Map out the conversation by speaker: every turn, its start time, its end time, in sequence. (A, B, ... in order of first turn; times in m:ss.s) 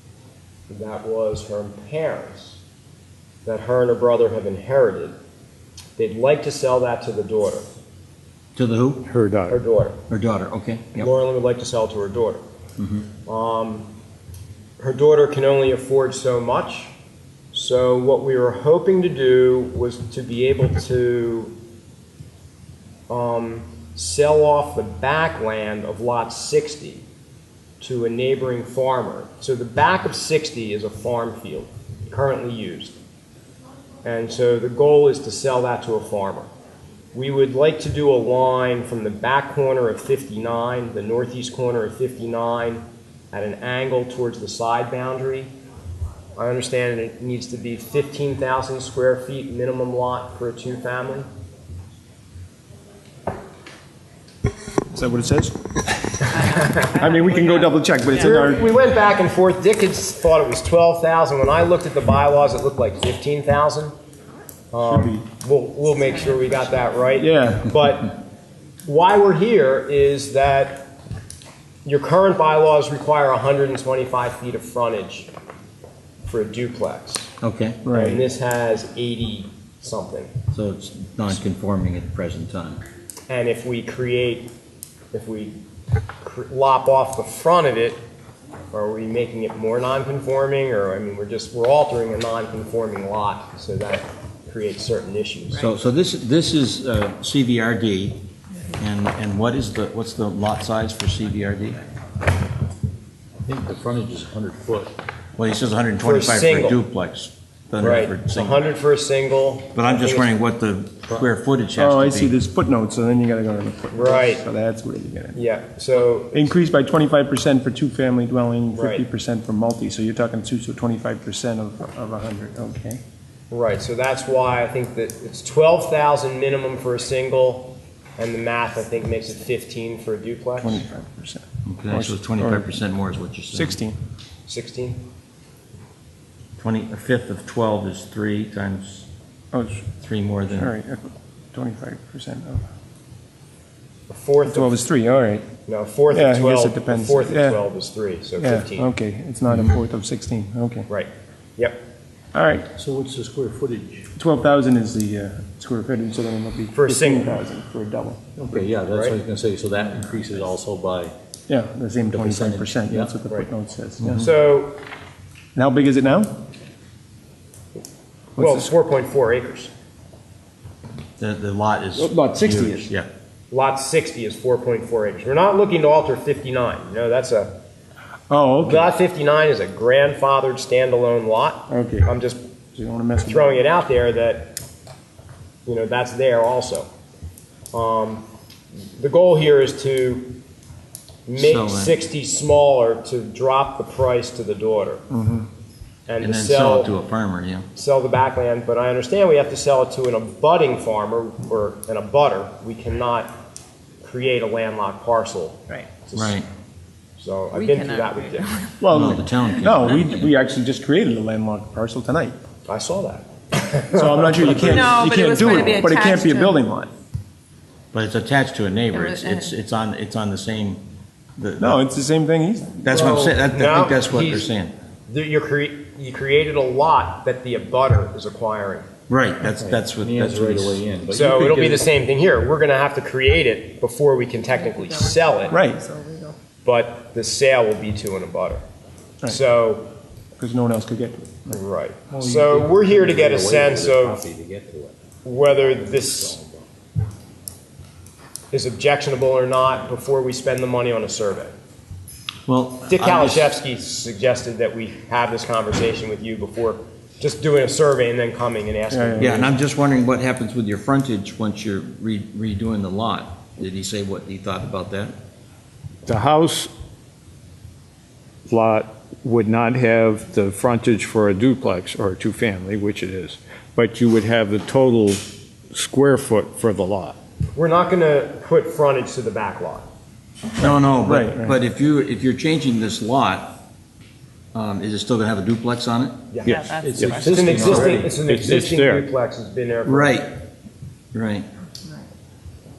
0:00.7-0:02.6 A
0:03.4-0:05.1 A
0:06.0-0:07.7 A
0:08.6-0:09.0 B
0:09.0-0:09.6 C
0:09.5-0:10.0 A
0:10.1-0:11.1 B
0:11.0-0:12.4 A
0:12.8-0:13.1 B
0:13.2-0:13.9 A
0:14.8-0:16.9 A
0:17.5-0:21.5 A
0:23.1-0:27.0 A
0:27.8-0:33.0 A
0:34.0-0:36.5 A
0:37.1-0:45.5 A
0:46.4-0:51.3 A
0:54.9-0:55.6 D
0:56.3-0:58.5 E
0:56.8-0:58.8 D
0:58.1-1:03.9 A
1:04.7-1:08.1 A
1:04.8-1:05.2 D
1:06.1-1:06.8 E
1:07.2-1:07.7 D
1:08.8-1:10.9 A
1:11.8-1:15.3 A
1:16.2-1:17.3 A
1:17.4-1:17.8 B
1:17.8-1:18.2 D
1:17.9-1:20.3 A
1:20.5-1:22.8 B
1:23.3-1:24.5 A
1:25.1-1:25.6 A
1:26.2-1:28.0 A
1:28.7-1:35.6 A
1:35.6-1:38.2 B
1:38.8-1:41.8 B
1:43.4-1:44.9 F
1:45.4-1:48.7 B
1:46.0-1:46.8 A
1:47.8-1:50.4 A
1:49.7-1:52.3 B
1:51.8-1:55.4 D
1:53.9-1:54.4 A
1:55.3-1:56.3 A
1:56.3-2:03.0 D
1:58.7-1:59.0 A
2:03.5-2:10.8 A
2:10.6-2:12.7 D
2:11.6-2:13.8 B
2:13.5-2:14.0 D
2:14.5-2:15.0 A
2:16.6-2:19.1 B
2:19.5-2:19.8 D
2:20.0-2:20.7 B
2:20.5-2:22.6 D
2:24.1-2:24.8 A
2:24.5-2:25.4 D
2:25.6-2:28.9 A
2:26.1-2:27.6 D
2:28.4-2:30.9 D
2:30.9-2:31.8 A
2:32.3-2:32.7 D
2:32.8-2:34.1 F
2:34.2-2:38.2 D
2:36.7-2:37.4 A
2:38.4-2:41.1 F
2:38.6-2:39.2 A
2:41.5-2:44.3 D
2:42.1-2:43.1 F
2:44.1-2:44.8 A
2:45.5-2:46.3 D
2:48.4-2:48.7 D
2:48.4-2:49.7 A
2:51.2-2:53.1 B
2:52.0-2:52.9 D
2:53.5-2:57.5 A
2:58.3-2:58.9 D
2:58.6-3:02.4 A
3:01.7-3:02.1 D
3:02.7-3:03.6 D
3:03.2-3:04.6 A
3:05.6-3:06.9 A
3:07.7-3:08.2 A
3:08.9-3:10.3 A
3:11.3-3:15.0 A
3:11.4-3:12.0 B
3:15.1-3:15.4 D
3:16.1-3:16.9 A
3:16.2-3:17.7 B
3:17.7-3:23.3 A
3:24.0-3:26.4 A
3:26.1-3:26.4 B
3:27.2-3:28.6 A
3:27.5-3:28.9 E
3:28.8-3:32.4 D
3:28.9-3:30.3 B
3:32.7-3:34.9 A
3:33.9-3:36.9 D
3:34.6-3:36.6 E
3:37.9-3:40.8 B
3:38.9-3:39.5 E
3:41.4-3:41.8 B
3:41.6-3:43.2 D
3:42.8-3:44.7 B
3:42.9-3:44.5 A
3:45.1-3:48.9 A
3:49.1-3:50.8 B
3:49.5-3:51.9 F
3:51.1-3:55.6 A
3:54.5-3:56.3 E
3:55.5-3:55.8 D
3:56.6-3:58.6 A
3:59.2-3:59.9 A
4:00.4-4:02.5 D
4:01.5-4:04.2 A
4:02.4-4:05.0 F
4:05.2-4:06.4 A
4:05.8-4:06.6 F
4:08.5-4:11.5 A
4:12.5-4:13.5 B
4:12.9-4:19.5 A
4:18.9-4:19.5 D
4:19.2-4:25.1 B
4:26.1-4:26.7 C
4:28.5-4:37.2 C
4:37.5-4:39.9 A
4:40.6-4:43.6 B
4:41.0-4:41.6 D
4:44.5-4:46.2 B
4:46.3-4:50.2 A
4:46.4-4:47.9 E
4:46.6-4:48.1 F
4:47.5-4:48.1 B
4:48.2-4:49.0 C
4:49.8-4:50.2 B
4:51.1-4:51.5 B